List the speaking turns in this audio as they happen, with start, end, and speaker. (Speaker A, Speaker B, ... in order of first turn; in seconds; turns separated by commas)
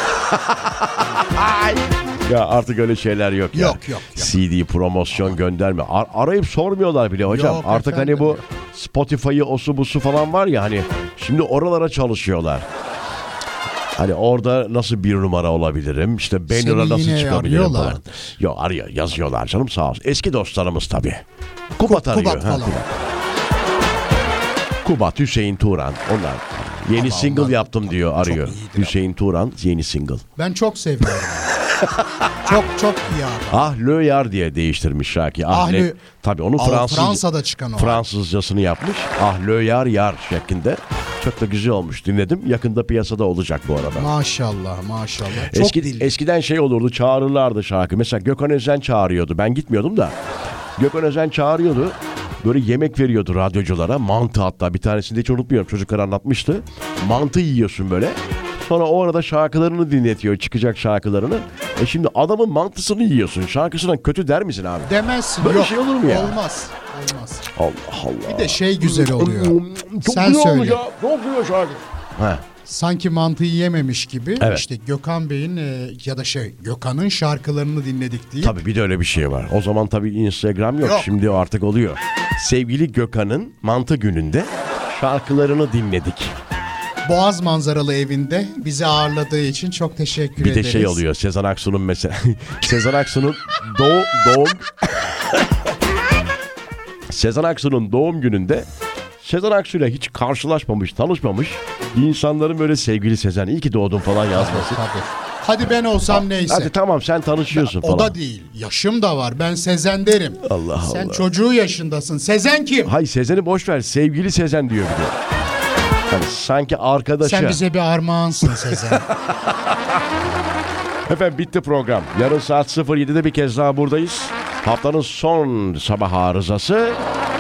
Speaker A: 0.1-12.7, Speaker B: 3.5-4.4, Speaker B: 7.3-8.4, Speaker A: 14.0-21.2, Speaker B: 16.5-18.4, Speaker A: 21.8-23.0, Speaker B: 21.8-22.9, Speaker A: 24.8-30.2, Speaker B: 26.9-29.0, Speaker B: 30.4-31.6, Speaker A: 31.8-32.5, Speaker B: 32.4-33.7, Speaker A: 33.5-37.2, Speaker B: 35.5-36.0, Speaker B: 36.6-38.0, Speaker A: 37.8-44.1, Speaker B: 44.0-46.1, Speaker A: 45.5-50.1, Speaker A: 50.8-66.4, Speaker B: 64.8-67.5, Speaker A: 67.5-72.5, Speaker B: 68.3-70.8, Speaker B: 72.6-78.6, Speaker A: 74.4-74.6, Speaker A: 78.4-86.3, Speaker B: 80.8-81.1, Speaker B: 87.0-91.0, Speaker A: 90.4-95.4, Speaker A: 97.1-98.7, Speaker A: 99.2-104.8, Speaker B: 104.3-106.7, Speaker A: 106.1-108.2, Speaker B: 107.5-112.9, Speaker A: 110.4-111.3, Speaker A: 112.8-115.2, Speaker A: 116.1-117.6, Speaker B: 117.2-119.1, Speaker A: 118.4-120.0, Speaker A: 121.1-127.0